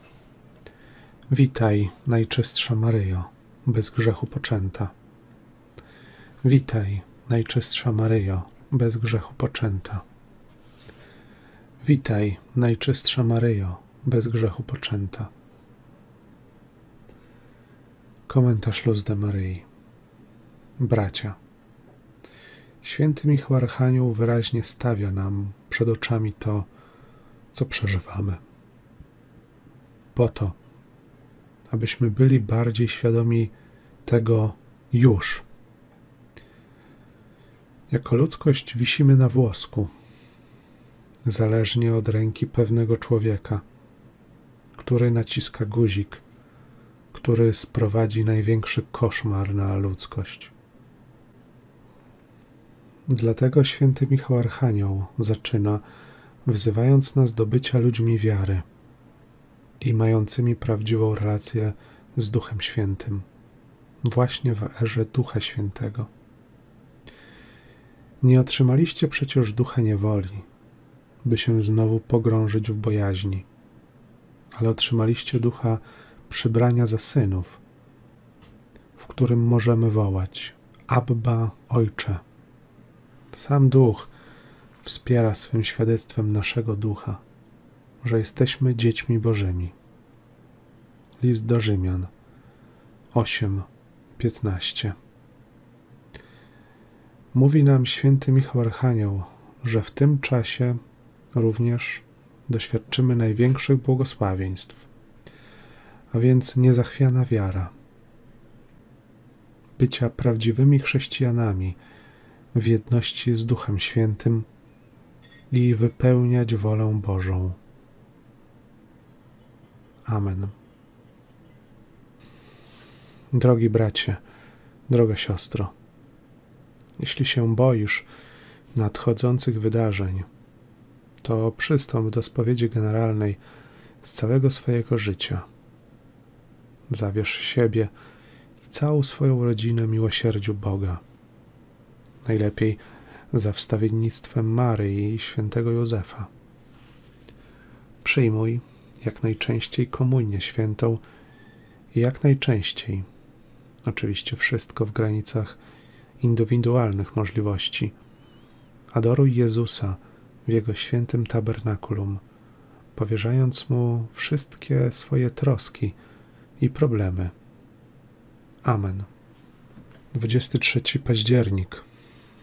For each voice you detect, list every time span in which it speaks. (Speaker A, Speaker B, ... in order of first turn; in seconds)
Speaker A: 1.3-4.9, 6.4-10.0, 11.8-15.3, 18.3-19.7, 20.8-21.4, 22.8-26.7, 27.5-28.4, 30.1-30.6, 31.7-33.5, 34.1-35.5, 37.9-39.9, 41.3-43.6, 44.8-46.2, 47.1-50.5, 53.1-55.8, 56.5-58.6, 59.8-63.3, 64.0-66.1, 68.2-70.5, 71.2-73.5, 74.5-77.6, 79.0-82.2, 83.3-84.1, 84.8-87.2, 88.0-89.8, 91.2-92.1, 93.1-95.0, 97.3-100.8, 101.3-104.9, 106.1-107.7, 109.8-111.8, 112.5-114.5, 115.5-117.6, 120.1-120.5, 123.3-124.2, 124.9-125.7, 127.0-128.1, 128.7-130.3, 131.2-133.4, 134.0-135.5, 136.9-137.9, 138.6-141.0, 142.2-146.3, 148.0-151.0, 151.9-153.1, 153.8-155.6, 156.2-157.9, 158.9-162.2, 162.9-166.0, 166.6-167.3, 168.6-169.1, 170.1-171.8